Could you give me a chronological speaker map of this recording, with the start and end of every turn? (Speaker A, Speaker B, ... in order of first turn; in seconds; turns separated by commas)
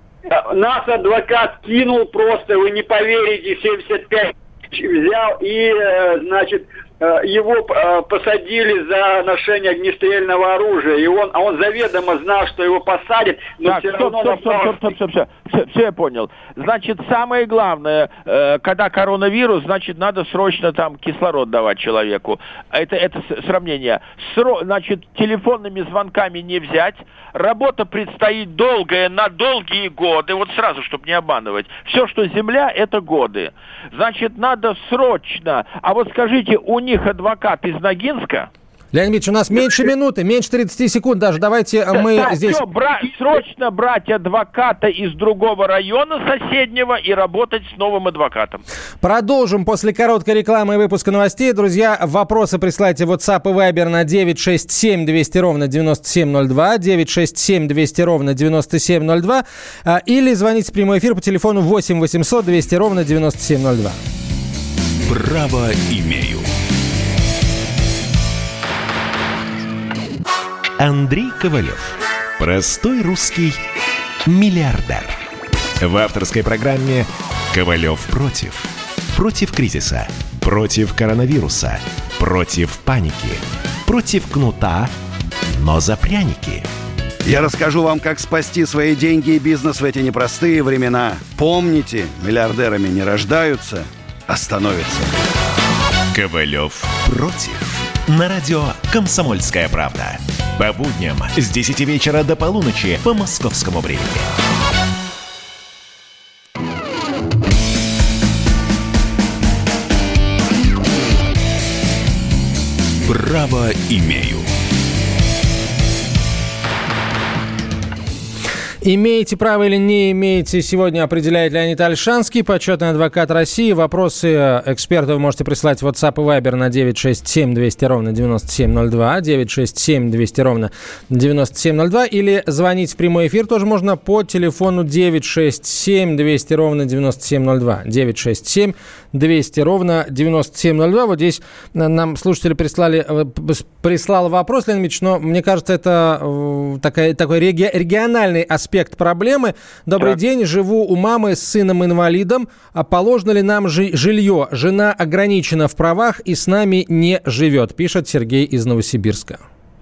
Speaker A: 0.3-14.8, Speaker B: 13.6-38.5, Speaker C: 38.9-42.6, Speaker B: 41.9-48.6, Speaker C: 49.0-64.0, Speaker D: 65.1-66.5, Speaker D: 70.8-73.6, Speaker D: 74.2-75.2, Speaker D: 75.8-84.9, Speaker D: 85.6-86.7, Speaker E: 87.2-95.1, Speaker D: 96.1-104.3, Speaker D: 113.0-114.5, Speaker C: 118.8-159.4